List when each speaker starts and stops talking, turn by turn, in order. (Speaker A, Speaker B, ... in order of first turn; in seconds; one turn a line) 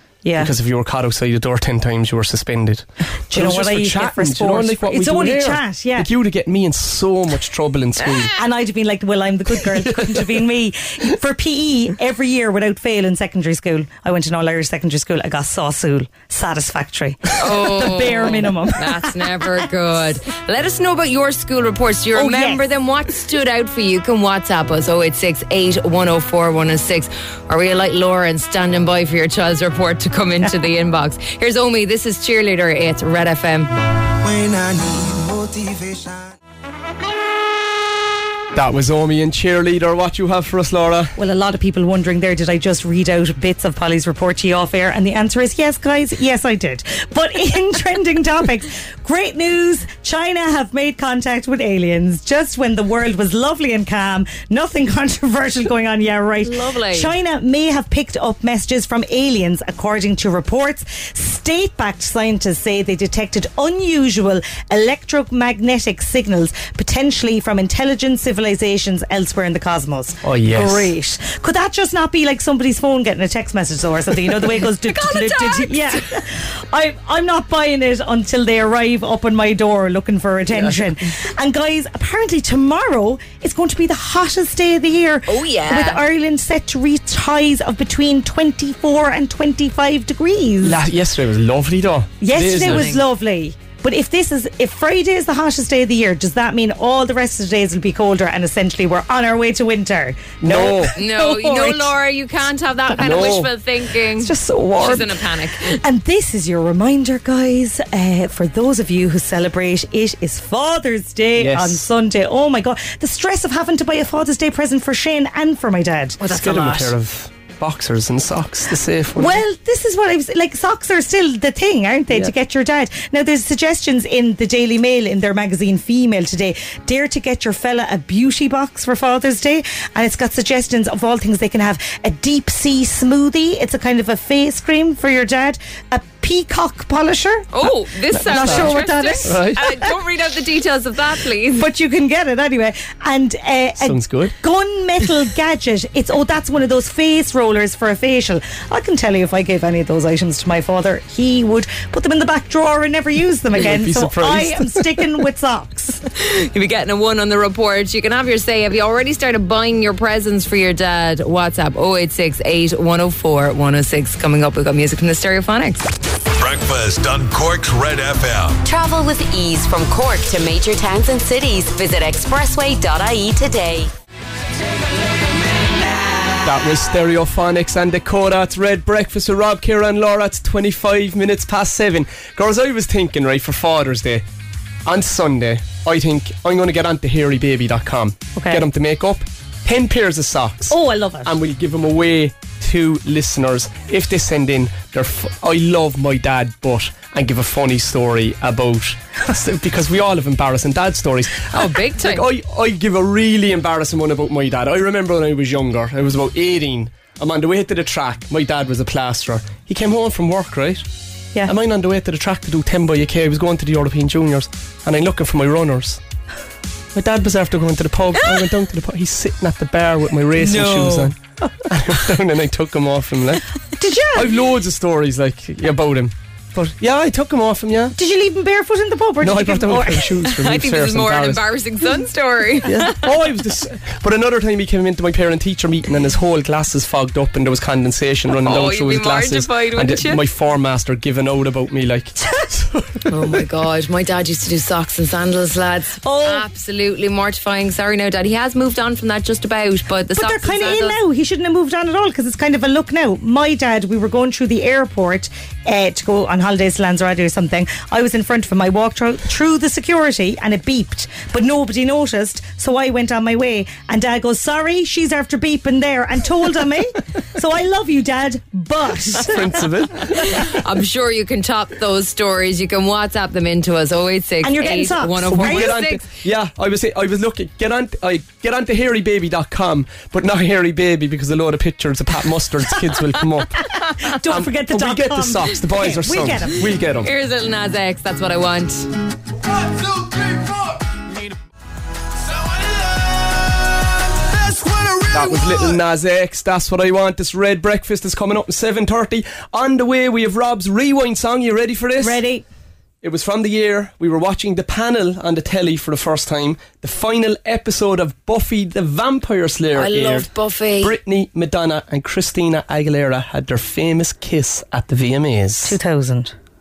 Speaker A: 0.2-0.5
Speaker B: 0.4-8.3
Speaker A: 3.3-6.1
Speaker A: 8.3-19.6
Speaker C: 17.4-33.7
Speaker A: 22.1-22.6
Speaker D: 34.2-36.3
Speaker B: 38.5-41.1
Speaker A: 41.2-90.8
Speaker C: 56.4-57.1
Speaker B: 70.2-70.9
Speaker C: 74.8-76.0
Speaker C: 85.3-86.0
Speaker B: 90.6-93.0
Speaker A: 92.2-101.9
Speaker B: 100.4-100.9
Speaker C: 101.0-105.8
Speaker B: 103.0-103.5
Speaker A: 104.2-116.9
Speaker B: 111.4-111.9
Speaker B: 116.2-119.4
Speaker A: 119.2-139.6
Speaker C: 137.5-141.7
Speaker B: 138.2-139.6
Speaker A: 141.6-156.0
Speaker B: 143.8-144.3
Speaker B: 153.5-154.9
Speaker C: 156.1-165.9
Speaker E: 166.4-168.6
Speaker F: 168.6-173.9
Speaker B: 176.4-184.2
Speaker B: 184.8-210.8
Speaker A: 188.3-188.6
Speaker A: 190.7-191.3
Speaker C: 201.5-202.2
Speaker B: 211.4-216.0
Speaker B: 216.9-223.4
Speaker C: 220.4-221.1
Speaker A: 223.8-224.4
Speaker B: 224.1-227.9
Speaker A: 227.9-230.2
Speaker B: 229.2-231.4
Speaker C: 230.3-233.1
Speaker B: 232.6-243.1
Speaker C: 238.4-240.2
Speaker C: 243.1-251.0
Speaker A: 246.0-246.5
Speaker A: 250.2-269.6
Speaker B: 269.2-270.4
Speaker C: 270.3-276.0
Speaker A: 274.4-275.8
Speaker B: 275.3-283.7
Speaker A: 284.1-286.7
Speaker B: 284.2-287.1
Speaker C: 287.0-288.9
Speaker D: 289.8-290.6
Speaker D: 294.3-295.1
Speaker B: 295.1-302.2
Speaker A: 302.0-302.4
Speaker B: 303.0-310.3
Speaker C: 309.7-310.9
Speaker B: 310.8-315.8
Speaker A: 315.6-316.3